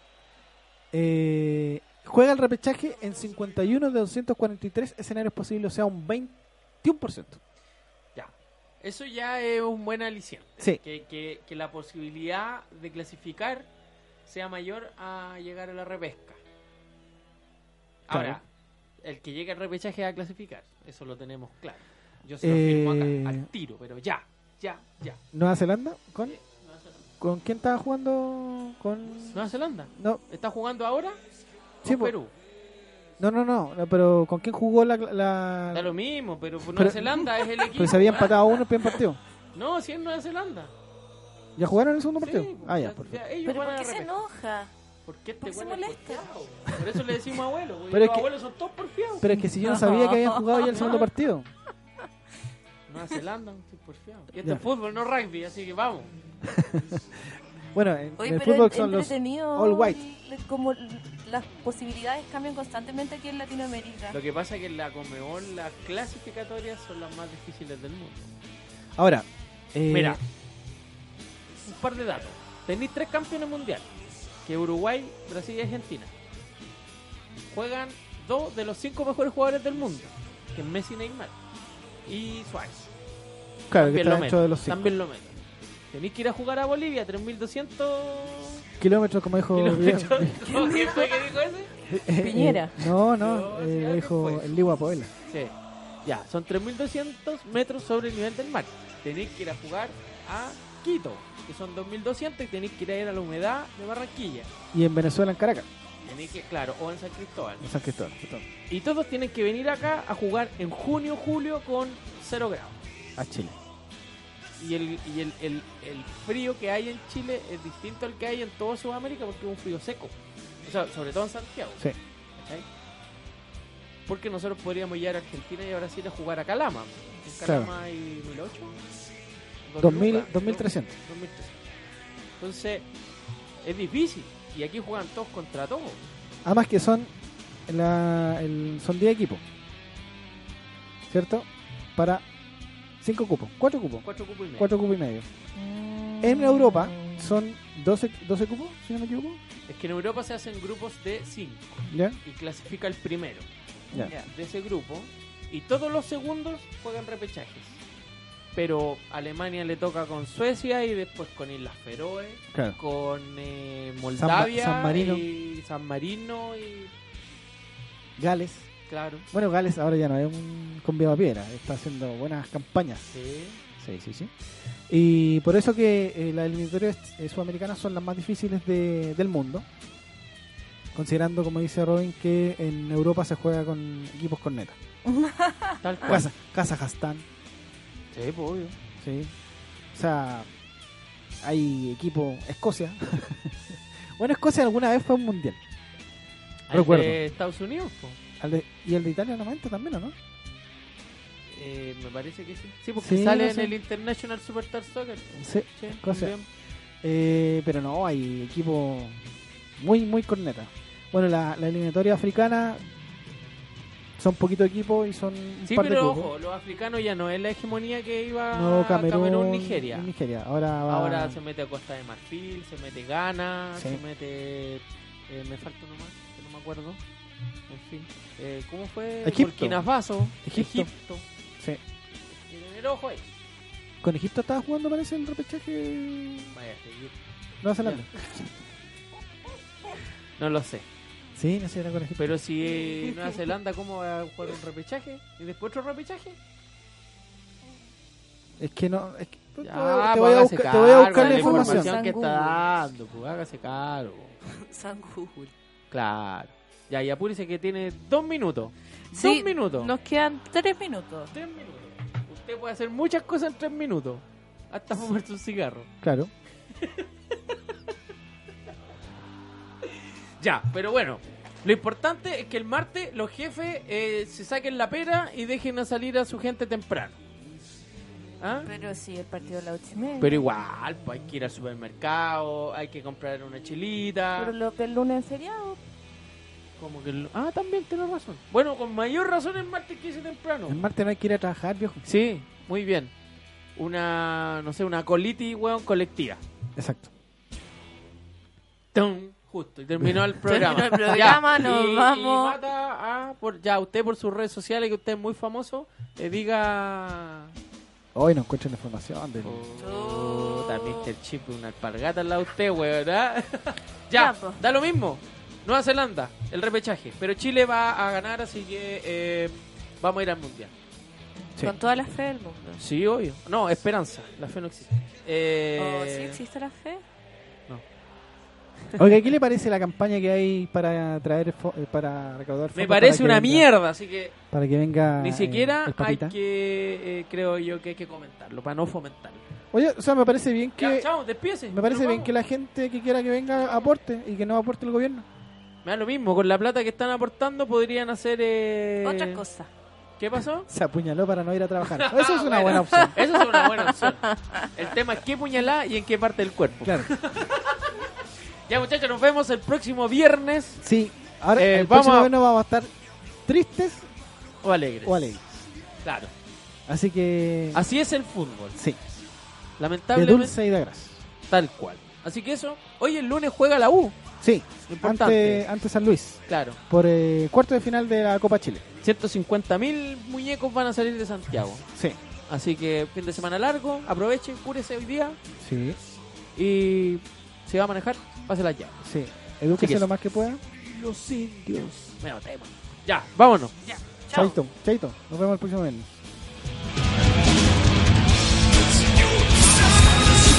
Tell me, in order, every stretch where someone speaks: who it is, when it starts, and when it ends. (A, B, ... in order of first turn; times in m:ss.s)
0:00.9-0:07.4 A
0:08.2-0:13.7 B
0:14.3-0:16.4 B
0:18.1-0:18.4 B
0:18.1-0:18.4 A
0:19.0-0:25.2 B
0:22.4-0:23.5 A
0:25.3-0:26.4 A
0:26.2-0:27.0 B
0:27.2-0:30.2 A
0:29.3-0:31.2 B
0:31.8-0:32.2 A
0:31.8-0:32.3 B
0:33.2-0:35.9 A
0:35.7-0:38.4 B
0:36.7-0:39.2 A
0:39.6-0:40.7 B
0:41.6-0:43.2 A
0:42.2-0:44.1 B
0:43.4-0:44.7 C
0:45.1-0:49.3 B
0:45.4-0:46.3 C
0:47.9-0:48.3 A
0:49.2-0:51.5 A
0:49.6-0:51.0 C
0:50.7-0:51.0 B
0:52.9-0:56.1 B
0:56.4-0:57.0 A
0:57.7-1:00.0 A
0:58.2-1:04.2 C
1:04.1-1:08.4 B
1:09.0-1:10.2 A
1:09.9-1:10.2 B
1:11.6-1:13.9 B
1:14.4-1:16.1 B
1:17.5-1:21.4 B
1:22.1-1:22.9 B
1:23.7-1:24.9 A
1:23.7-1:25.4 B
1:25.9-1:28.6 B
1:28.8-1:30.4 A
1:29.5-1:31.7 B
1:30.4-1:31.3 C
1:31.9-1:35.1 A
1:32.1-1:32.8 C
1:33.1-1:34.6 B
1:35.3-1:44.5 B
1:44.7-1:45.7 A
1:46.0-1:47.6 B
1:47.6-1:48.4 A
1:48.7-1:52.8 B
1:53.2-1:53.6 A
1:54.6-2:00.1 B
2:00.6-2:01.8 B
2:02.4-2:02.6 B
2:04.1-2:08.8 B
2:07.4-2:07.7 A
2:09.7-2:11.6 B
2:09.8-2:10.9 A
2:12.4-2:12.9 B
2:13.6-2:16.0 B
2:16.4-2:17.1 A
2:17.7-2:19.4 A
2:21.1-2:22.2 A
2:23.0-2:25.3 A
2:24.0-2:24.7 B
2:25.6-2:27.3 C
2:26.2-2:29.4 A
2:29.7-2:33.4 B
2:31.9-2:32.2 A
2:33.9-2:34.3 C
2:34.3-2:37.8 B
2:38.6-2:46.9 B
2:42.5-2:42.8 A
2:44.2-2:45.2 A
2:48.2-2:48.7 A
2:48.9-2:49.3 B
2:49.3-2:53.1 A
2:53.1-2:53.6 B
2:53.8-2:54.3 A
2:54.9-2:59.6 A
3:00.9-3:04.8 A
3:05.1-3:05.8 C
3:05.8-3:06.3 B
3:06.0-3:07.2 A
3:08.1-3:08.8 B
3:09.0-3:09.3 A
3:09.9-3:10.5 A
3:11.4-3:13.6 A
3:14.2-3:15.6 A
3:16.7-3:18.2 B
3:16.7-3:17.2 A
3:18.4-3:20.2 A
3:21.5-3:26.4 B
3:23.0-3:23.7 A
3:25.4-3:26.4 A
3:27.0-3:29.2 A
3:29.8-3:32.8 A
3:34.2-3:36.3 A
3:35.6-3:40.1 B
3:38.5-3:41.4 A
3:40.9-3:47.0 B
3:43.7-3:44.0 A
3:47.7-3:51.2 B
3:49.2-3:49.9 A
3:50.4-3:50.9 A
3:52.3-3:53.2 B
3:54.0-3:56.5 A
3:56.5-3:57.2 B
3:57.6-3:58.4 A
4:00.4-4:00.8 B
4:01.4-4:02.4 A
4:02.2-4:06.4 B
4:08.6-4:11.9 A
4:09.6-4:14.4 B
4:11.2-4:12.6 C
4:14.4-4:15.5 C
4:15.9-4:19.9 B
4:19.1-4:21.3 C
4:21.3-4:25.9 B
4:26.0-4:26.3 A
4:26.8-4:27.1 B
4:29.8-4:37.2 B
4:38.4-4:38.7 B
4:38.6-4:40.5 C
4:40.2-4:44.5 B
4:44.4-4:45.8 C
4:46.8-4:50.8 B
4:50.6-4:52.0 A
4:52.0-4:53.1 B
4:53.8-4:56.4 B
4:56.8-4:57.1 A
4:58.9-5:07.5 B
5:00.4-5:02.6 C
5:08.2-5:09.6 A
5:09.4-5:20.7 B
5:09.8-5:11.1 C
5:14.1-5:14.6 C
5:21.6-5:22.8 C
5:22.8-5:26.4 B
5:25.8-5:27.0 C
5:28.9-5:29.2 B
5:29.0-5:33.7 A
5:32.7-5:34.4 B
5:34.5-5:36.4 A
5:35.2-5:39.4 B
5:39.7-5:41.1 A
5:40.8-5:42.3 B
5:41.7-5:45.3 A
5:45.8-5:49.4 B
5:49.0-5:49.7 C
5:50.2-5:50.7 B
5:50.7-5:53.2 A
5:51.9-5:58.0 B
5:53.0-5:54.6 C
5:56.8-5:57.1 A
5:58.7-6:00.8 B
6:00.8-6:02.9 A
6:01.6-6:02.3 B
6:03.4-6:04.1 A
6:04.6-6:05.4 B
6:05.0-6:05.5 A
6:06.0-6:06.3 B
6:06.9-6:07.8 A
6:07.7-6:08.8 B
6:09.8-6:10.6 B
6:10.1-6:11.2 A
6:11.5-6:14.2 B
6:14.4-6:18.8 A
6:14.9-6:15.6 B
6:16.5-6:16.8 B
6:19.0-6:21.8 B
6:22.5-6:25.4 B
6:25.6-6:26.0 A
6:26.6-6:29.0 B
6:29.0-6:30.6 A
6:29.7-6:30.1 B
6:30.8-6:33.9 B
6:34.3-6:34.6 C
6:34.3-6:36.1 A